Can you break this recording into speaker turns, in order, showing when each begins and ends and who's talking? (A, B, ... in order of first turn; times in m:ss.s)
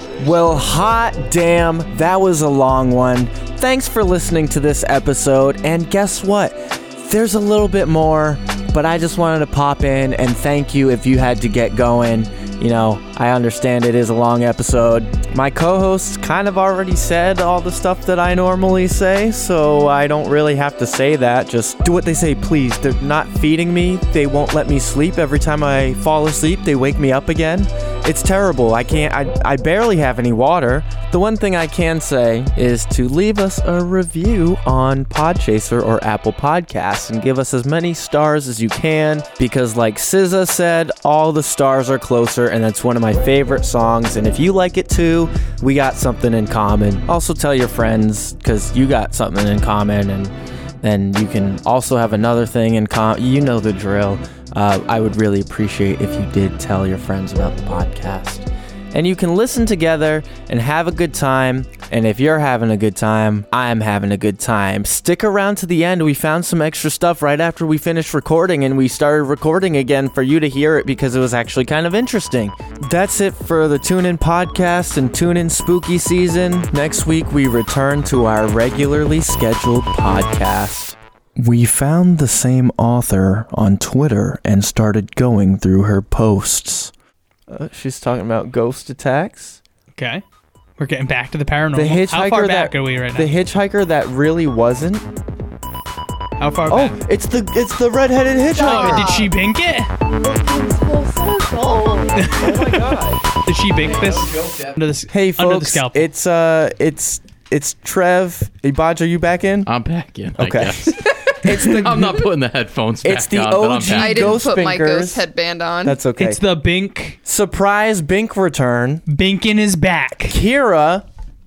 0:00.2-1:26.9 A
1:27.5-1:29.6 A
1:30.0-1:30.2 B
1:30.8-1:33.3 B
1:31.7-1:35.1 A
1:36.4-1:37.0 B
1:36.7-1:39.2 A
1:38.6-1:39.3 C
1:38.6-1:39.9 B
1:40.5-1:42.3 C
1:42.2-1:42.7 B
1:42.2-1:43.2 A
1:43.5-1:46.1 B
1:43.8-1:44.8 D
1:45.1-1:49.7 A
1:49.7-1:54.4 D
1:50.4-1:52.1 A
1:50.9-1:52.2 C
1:53.0-1:55.2 A
1:53.9-1:56.0 C
1:55.8-1:56.4 A
1:56.2-1:57.2 B
1:57.2-1:59.0 A
1:59.1-2:00.4 B
2:00.3-2:01.1 A